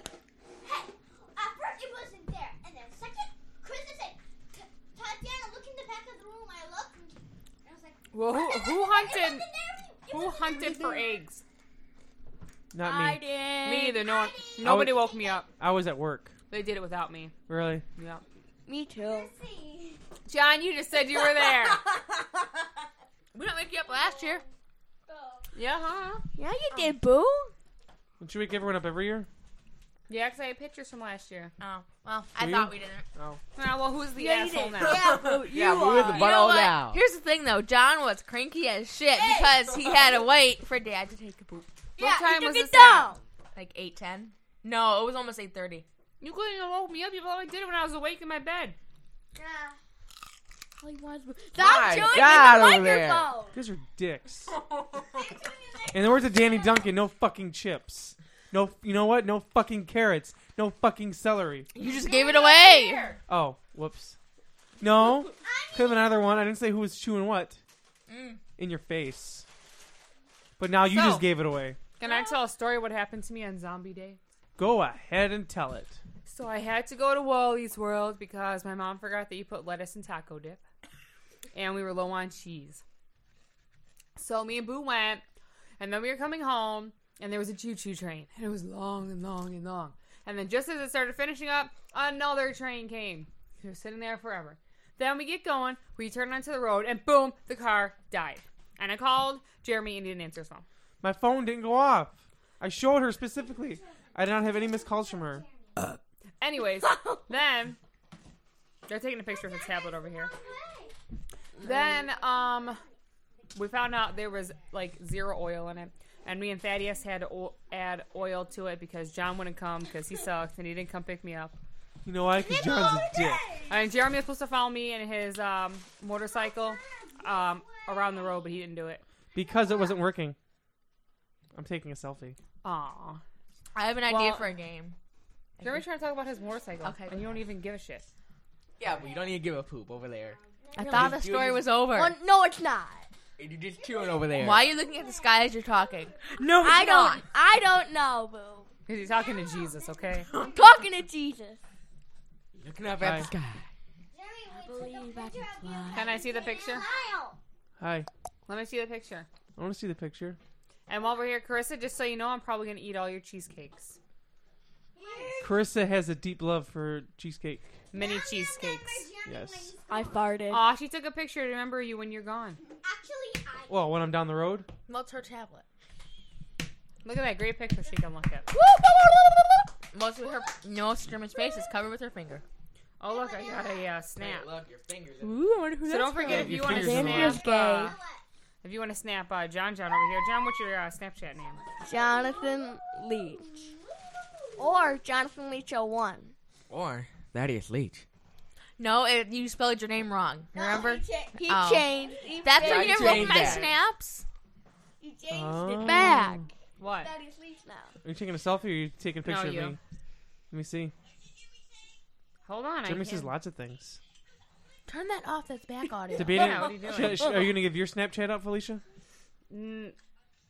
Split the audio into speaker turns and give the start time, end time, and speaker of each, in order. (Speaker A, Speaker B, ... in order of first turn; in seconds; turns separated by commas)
Speaker A: 0.6-11.1, Speaker B: 8.1-9.5, Speaker B: 10.1-11.4, Speaker C: 12.7-13.2, Speaker D: 12.8-14.1, Speaker B: 13.6-15.5, Speaker A: 14.0-15.4, Speaker C: 14.6-16.3, Speaker B: 16.5-17.3, Speaker C: 17.5-17.8, Speaker B: 17.9-18.2, Speaker D: 18.6-19.3, Speaker A: 19.0-20.0, Speaker B: 20.2-21.8, Speaker E: 23.3-24.4, Speaker A: 23.8-24.4, Speaker A: 25.1-25.4, Speaker B: 25.5-26.2, Speaker D: 26.3-27.5, Speaker C: 28.2-29.3, Speaker B: 30.1-31.5, Speaker E: 31.6-33.0, Speaker C: 32.4-33.4, Speaker B: 33.5-35.0, Speaker D: 34.1-36.5, Speaker F: 34.9-37.0, Speaker E: 36.0-41.7, Speaker A: 39.1-40.1, Speaker B: 42.0-43.1, Speaker D: 42.0-43.2, Speaker E: 43.5-45.8, Speaker B: 46.2-48.8, Speaker D: 49.4-49.7, Speaker D: 50.8-53.6, Speaker F: 51.6-53.3, Speaker C: 53.5-54.5, Speaker A: 55.0-56.8, Speaker C: 55.9-61.7, Speaker E: 61.7-63.2, Speaker A: 61.8-63.2, Speaker C: 63.3-64.2, Speaker C: 64.8-67.6, Speaker A: 65.4-66.2, Speaker E: 68.1-68.4, Speaker C: 68.6-69.5, Speaker C: 70.6-71.8, Speaker B: 70.8-71.3, Speaker B: 72.0-74.2, Speaker C: 74.6-76.0, Speaker B: 76.2-80.6, Speaker B: 81.5-82.8, Speaker B: 84.2-85.2, Speaker B: 85.8-100.7, Speaker C: 101.0-105.4, Speaker A: 104.3-105.7, Speaker B: 106.4-107.8, Speaker B: 108.9-110.3, Speaker A: 109.3-111.0, Speaker B: 111.6-112.8, Speaker D: 111.6-112.0, Speaker A: 111.7-112.9, Speaker B: 113.5-121.5, Speaker C: 122.0-123.5, Speaker A: 122.4-124.0, Speaker B: 123.7-129.0, Speaker A: 126.3-128.4, Speaker C: 129.3-130.4, Speaker A: 129.4-129.9, Speaker C: 131.5-132.4, Speaker B: 132.6-133.2, Speaker E: 133.7-134.9, Speaker B: 134.1-134.5, Speaker B: 135.6-138.1, Speaker E: 136.8-137.2, Speaker F: 138.8-141.7, Speaker A: 138.8-139.4, Speaker A: 140.2-141.2, Speaker E: 140.8-142.2, Speaker D: 141.9-143.1, Speaker F: 143.4-144.7, Speaker A: 143.8-146.5, Speaker E: 144.4-147.2, Speaker D: 146.5-148.7, Speaker B: 148.8-150.3, Speaker A: 148.9-150.8, Speaker D: 150.4-151.6, Speaker F: 152.5-153.7, Speaker C: 153.0-153.3, Speaker A: 154.1-157.4, Speaker D: 154.5-156.8, Speaker B: 155.9-156.8, Speaker C: 157.8-158.1, Speaker B: 158.4-159.3, Speaker C: 159.6-160.4, Speaker B: 160.9-164.0, Speaker A: 164.9-165.7, Speaker B: 165.0-165.4, Speaker C: 165.4-167.8, Speaker B: 167.9-169.1, Speaker A: 167.9-170.4, Speaker C: 169.2-169.7, Speaker D: 169.9-170.7, Speaker B: 170.5-172.6, Speaker A: 172.7-173.8, Speaker C: 173.7-174.7, Speaker E: 174.9-175.6, Speaker B: 177.0-178.5, Speaker E: 178.5-179.4, Speaker E: 179.9-182.4, Speaker B: 183.0-184.5, Speaker A: 183.0-184.0, Speaker F: 184.2-185.5, Speaker C: 185.2-187.4, Speaker B: 185.8-187.9, Speaker D: 186.2-187.9, Speaker F: 186.3-187.3, Speaker A: 187.1-188.2, Speaker B: 188.6-191.6, Speaker A: 191.6-195.0, Speaker D: 191.8-193.7, Speaker D: 194.6-196.3, Speaker F: 196.7-198.0, Speaker E: 198.8-204.2, Speaker D: 200.5-203.5, Speaker F: 202.5-203.7, Speaker B: 203.2-203.7, Speaker D: 205.0-208.0, Speaker C: 205.3-206.4, Speaker B: 205.8-207.1, Speaker C: 208.0-209.8, Speaker B: 209.2-209.8, Speaker C: 210.5-210.9, Speaker B: 212.4-213.3, Speaker C: 212.8-214.0, Speaker E: 214.9-216.8, Speaker C: 216.2-218.8, Speaker B: 216.2-217.4, Speaker B: 219.5-220.0